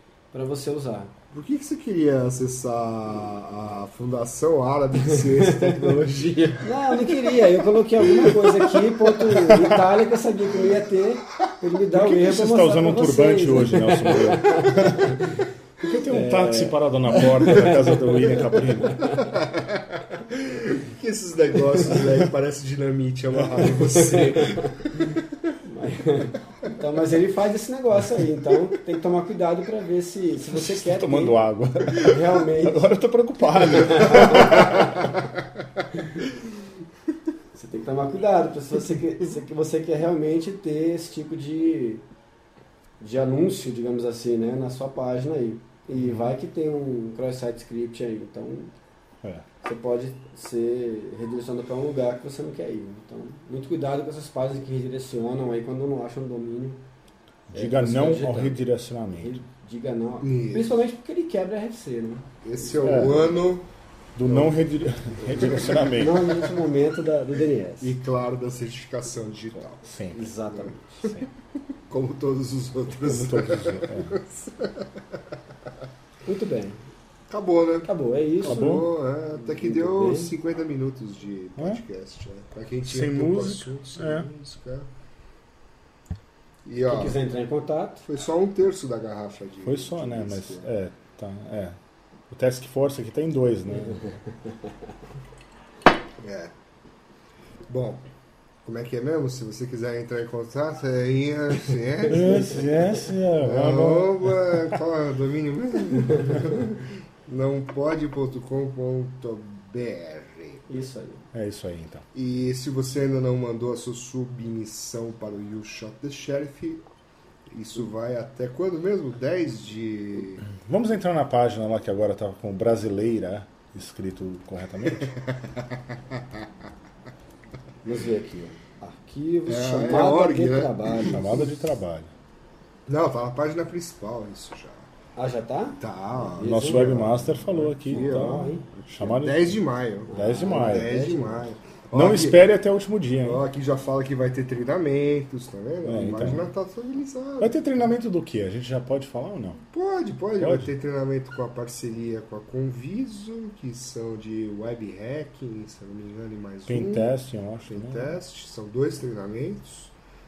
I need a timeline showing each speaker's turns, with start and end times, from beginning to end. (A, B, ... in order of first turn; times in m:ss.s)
0:00.3-0:01.1 A
0:01.3-0:07.4 B
0:05.3-0:05.8 A
0:06.6-0:19.4 A
0:08.2-0:08.5 B
0:09.5-0:09.8 C
0:11.9-0:19.2 C
0:19.2-0:25.6 B
0:23.4-0:23.8 C
0:24.0-0:24.7 A
0:25.6-0:31.4 A
0:30.5-0:35.1 C
0:32.0-0:32.9 A
0:33.6-0:35.1 A
0:37.5-0:42.0 A
0:43.0-0:48.7 A
0:46.0-0:46.3 C
0:49.6-0:56.8 A
0:57.5-0:59.4 C
0:57.5-1:02.8 A
1:00.2-1:00.8 B
1:02.4-1:03.7 B
1:02.8-1:03.4 C
1:04.2-1:06.5 C
1:04.2-1:04.6 B
1:05.2-1:05.9 B
1:05.8-1:08.0 A
1:07.8-1:09.9 B
1:09.8-1:10.3 C
1:10.1-1:11.3 A
1:10.5-1:11.1 B
1:11.9-1:15.0 B
1:13.0-1:14.2 C
1:16.2-1:16.8 A
1:17.3-1:24.9 B
1:17.8-1:18.8 A
1:18.4-1:18.9 C
1:19.4-1:20.3 A
1:22.9-1:24.3 C
1:26.6-1:27.2 B
1:26.8-1:28.0 A
1:28.1-1:30.7 B
1:29.6-1:31.8 C
1:32.3-1:34.2 C
1:34.1-1:34.5 A
1:36.2-1:36.5 B
1:37.7-1:38.0 B
1:38.6-1:42.6 B
1:42.1-1:44.8 C
1:42.1-1:42.6 A
1:43.4-1:50.6 B
1:50.7-1:51.3 A
1:51.3-1:52.0 C
1:52.1-1:56.8 B
1:57.5-2:00.4 B
2:00.5-2:05.2 C
2:05.0-2:06.5 B
2:07.8-2:11.2 A
2:09.5-2:11.5 B
2:11.0-2:12.1 C
2:12.9-2:14.9 B
2:15.2-2:15.8 A
2:15.8-2:22.5 B
2:16.4-2:16.9 A
2:16.4-2:20.9 C
2:17.9-2:18.6 A
2:20.1-2:21.5 A
2:21.9-2:23.4 C
2:23.2-2:27.6 B
2:25.8-2:26.5 C
2:27.4-2:29.6 C
2:29.7-2:37.2 B
2:30.4-2:30.7 C
2:36.7-2:38.2 C
2:37.7-2:39.9 B